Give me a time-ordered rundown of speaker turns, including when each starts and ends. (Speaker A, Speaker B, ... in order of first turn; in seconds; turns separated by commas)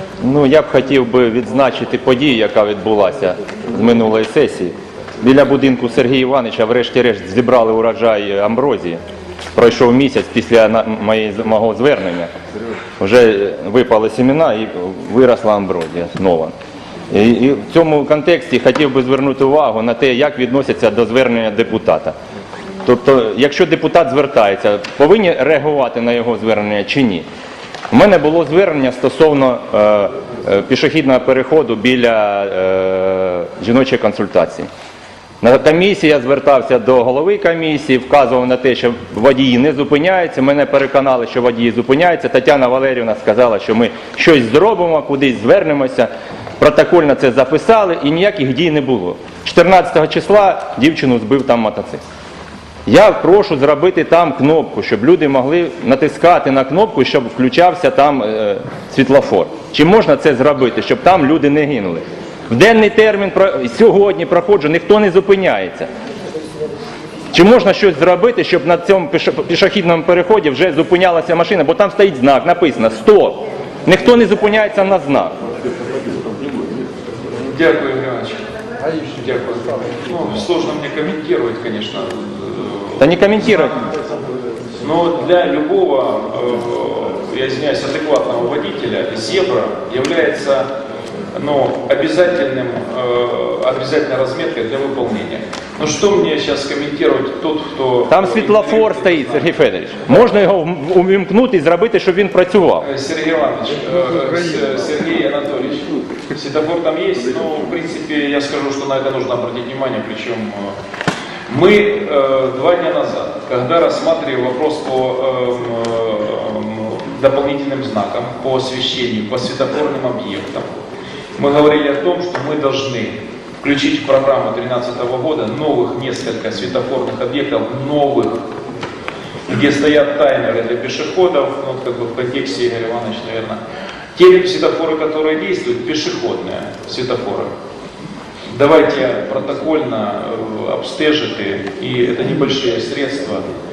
Speaker A: 0.2-9.0, Speaker A: 9.5-12.3, Speaker A: 13.0-16.5, Speaker A: 17.1-22.1, Speaker A: 22.8-27.2, Speaker A: 27.9-34.7, Speaker A: 35.4-52.0, Speaker A: 52.9-65.9, Speaker A: 67.3-75.3, Speaker B: 77.4-78.4, Speaker B: 79.1-83.7, Speaker A: 83.0-83.8, Speaker B: 84.8-90.7, Speaker B: 91.3-99.5, Speaker A: 98.1-102.9, Speaker B: 102.8-110.8, Speaker B: 111.5-120.7, Speaker B: 121.4-128.4, Speaker B: 129.5-133.6, Speaker B: 134.2-137.5, Speaker B: 138.5-143.4